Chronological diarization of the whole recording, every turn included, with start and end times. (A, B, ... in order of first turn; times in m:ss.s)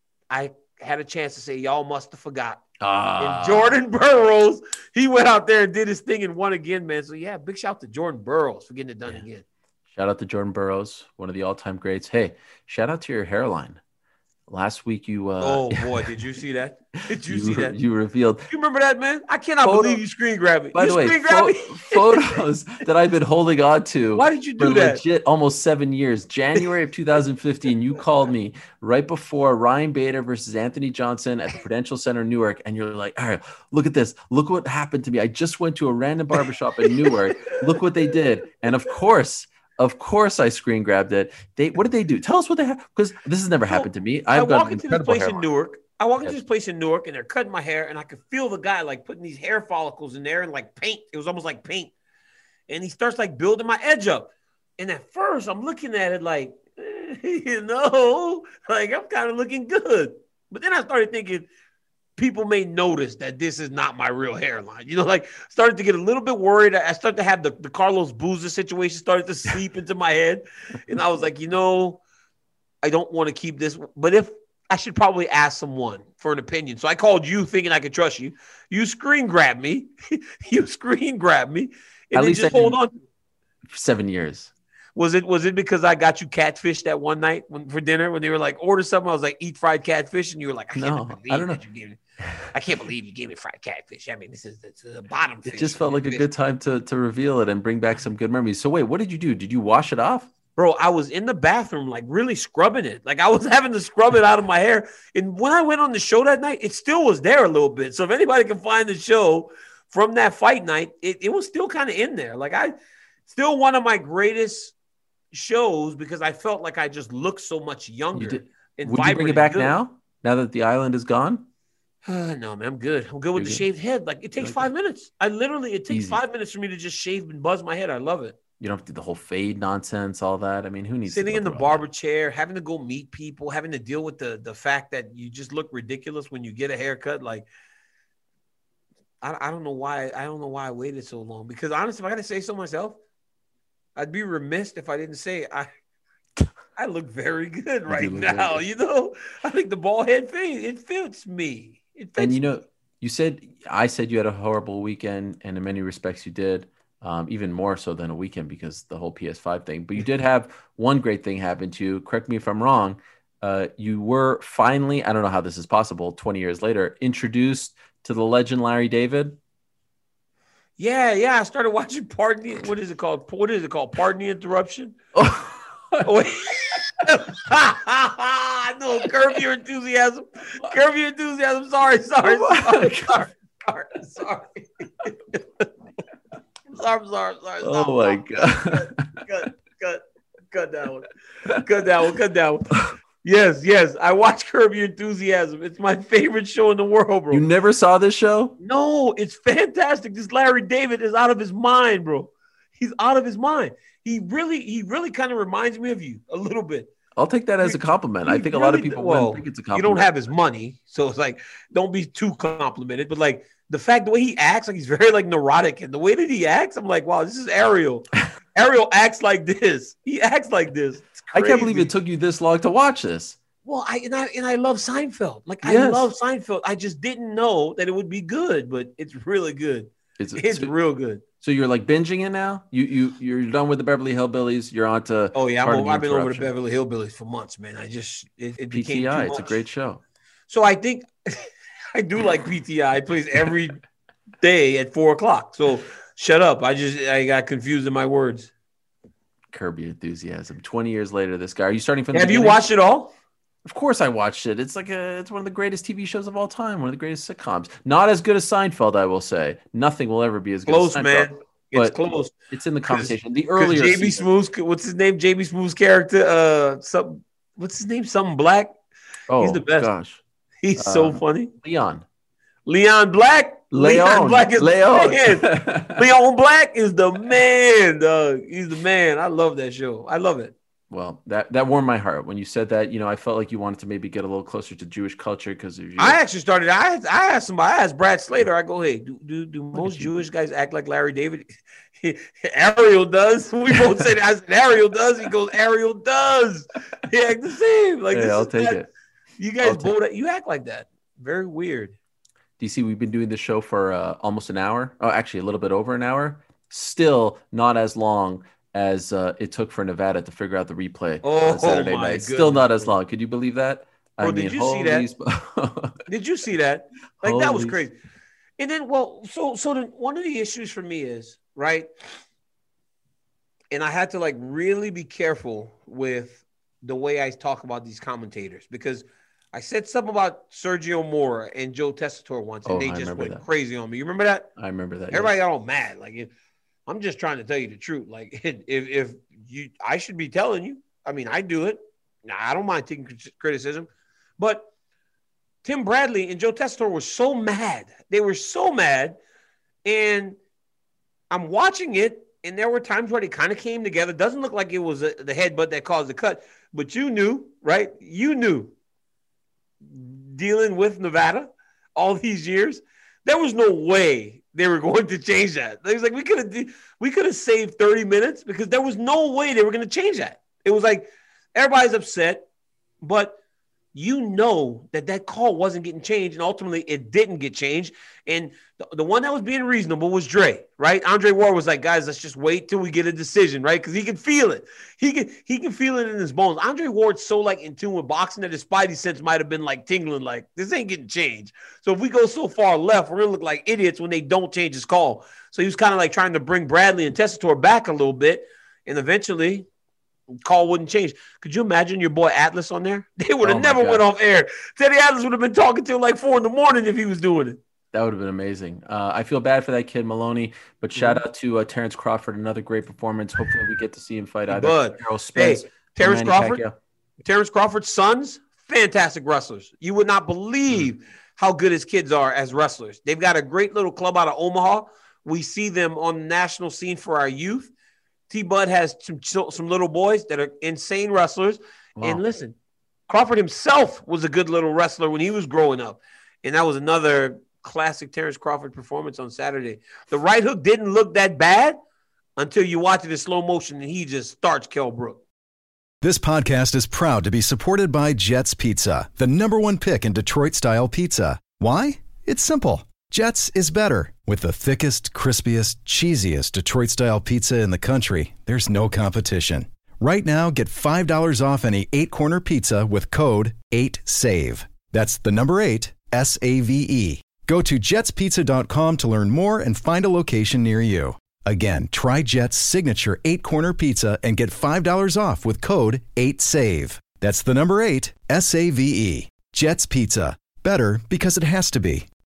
0:00.3-0:02.6 A
0:02.8-0:03.8 B
0:03.2-0:09.4 A
0:09.9-0:13.8 B
0:14.5-0:16.0 B
0:15.4-0:17.8 A
0:17.0-0:18.5 B
0:18.5-0:22.4 A
0:19.6-0:20.0 B
0:20.7-0:45.4 B
0:24.1-0:25.0 A
0:36.8-0:37.8 A
0:43.7-0:51.9 A
0:52.7-1:01.5 A
1:02.2-1:12.0 A
1:12.8-1:23.0 A
1:22.1-1:22.8 B
1:23.7-1:24.5 B
1:25.0-1:32.0 A
1:30.8-1:31.6 B
1:32.5-1:36.2 A
1:35.5-1:40.3 B
1:40.6-1:52.7 A
1:53.3-1:54.7 A
1:55.3-1:59.7 A
1:58.1-2:01.4 B
2:02.0-2:08.4 A
2:03.3-2:03.6 B
2:04.4-2:04.6 B
2:05.9-2:06.2 B
2:08.6-2:11.8 B
2:11.1-2:17.5 A
2:19.2-2:23.0 A
2:24.0-2:25.7 A
2:26.8-2:32.4 A
2:27.9-2:28.6 B
2:32.2-2:49.4 B
2:50.8-2:55.0 A
2:55.1-2:56.0 B
2:56.0-3:05.7 A
3:02.2-3:03.2 B
3:06.7-3:12.7 A
3:07.6-3:09.1 B
3:13.2-3:17.4 A
3:17.3-3:18.6 B
3:18.6-3:26.9 A
3:27.2-3:30.1 B
3:27.6-3:41.9 A
3:41.3-3:43.4 B
3:43.6-3:51.2 A
3:45.6-3:46.1 B
3:50.2-3:50.7 B
3:51.4-3:56.5 B
3:55.3-3:59.6 A
3:58.7-4:00.0 B
4:00.5-4:03.8 A
4:04.4-4:08.5 A
4:09.5-4:12.6 B
4:12.1-4:13.1 A
4:13.6-4:24.2 B
4:20.7-4:22.3 A
4:22.9-4:28.7 A
4:29.3-4:30.2 B
4:29.4-4:29.9 A
4:30.6-4:31.5 A
4:30.8-4:32.0 B
4:32.6-4:40.5 A
4:33.7-4:36.0 B
4:40.9-4:46.2 B
4:46.0-4:58.8 A
4:49.7-4:50.1 B
4:58.1-4:58.9 B
4:59.4-5:02.0 A
4:59.6-4:59.9 B
5:02.6-5:16.0 B
5:11.2-5:12.9 A
5:14.2-5:15.1 A
5:16.1-5:17.9 A
5:17.2-5:17.8 B
5:18.6-5:21.9 A
5:23.7-5:34.5 A
5:32.6-5:33.4 B
5:34.6-5:35.3 B
5:35.1-5:36.3 A
5:36.9-5:44.7 A
5:45.6-5:49.2 A
5:49.8-5:50.4 A
5:51.3-5:58.7 A
5:59.8-6:12.4 A
6:13.0-6:13.4 A
6:13.9-6:39.7 A
6:40.4-6:47.6 A
6:43.4-6:44.0 B
6:47.9-6:56.7 B
6:51.0-6:51.2 A
6:54.5-6:56.6 A
6:57.2-7:07.7 A
7:08.3-7:12.6 A
7:12.0-7:12.2 B
7:13.1-7:21.8 A
7:22.4-7:25.2 A
7:26.0-8:02.1 C